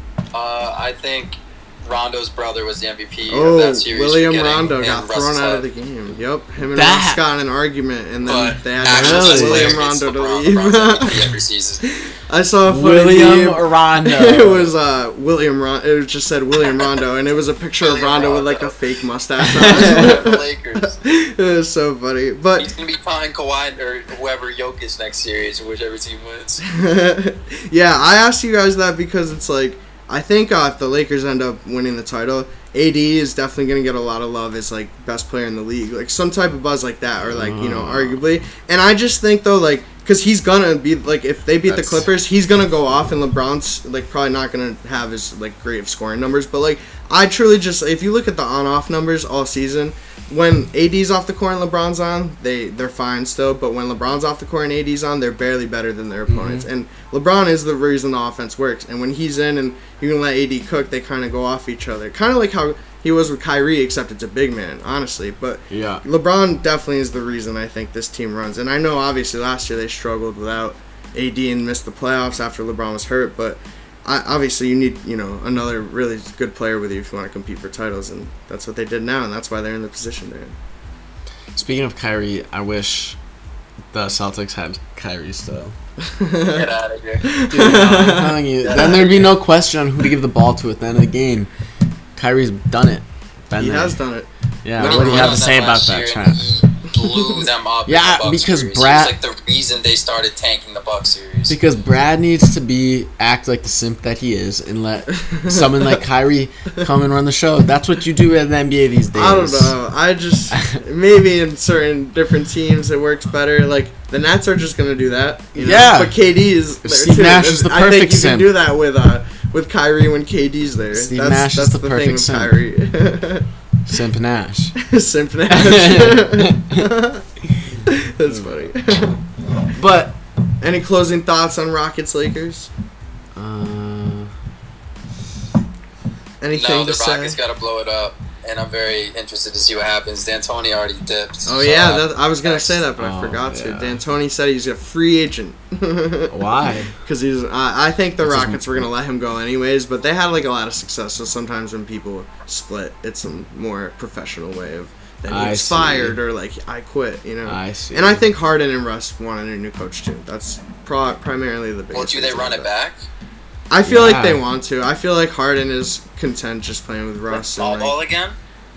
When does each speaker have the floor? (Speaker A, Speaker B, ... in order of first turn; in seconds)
Speaker A: 0.3-5.6, 8.2-11.8, 17.8-18.7, 19.5-21.0, 22.6-26.6, 86.5-87.3, 88.6-89.3, 94.8-101.5, 136.5-142.8, 161.9-163.1, 167.3-168.3
Speaker B: 3.3-11.3, 12.0-22.7, 26.7-80.5, 86.0-86.7, 87.2-89.0, 93.6-95.4, 97.0-97.5, 105.2-106.0, 109.1-123.5, 124.8-127.2, 127.9-129.2, 130.6-132.7, 136.4-137.4, 141.4-146.3, 147.0-162.7, 163.7-167.9
Speaker C: 6.7-7.2, 8.8-9.8, 12.7-14.7, 19.4-20.2, 37.2-38.2, 41.6-42.1, 56.3-56.7, 65.7-66.0, 81.5-83.2, 83.9-85.7, 87.5-91.5, 92.2-94.0, 94.6-96.4, 97.8-99.1, 101.5-109.7, 110.5-110.8, 115.5-116.2, 116.8-118.5, 120.9-122.5, 123.8-124.7, 125.5-126.9, 127.5-128.7, 129.7-130.2, 133.3-134.3, 143.0-144.0, 146.3-146.9, 148.2-148.6, 155.3-156.2, 157.4-158.2, 163.8-164.4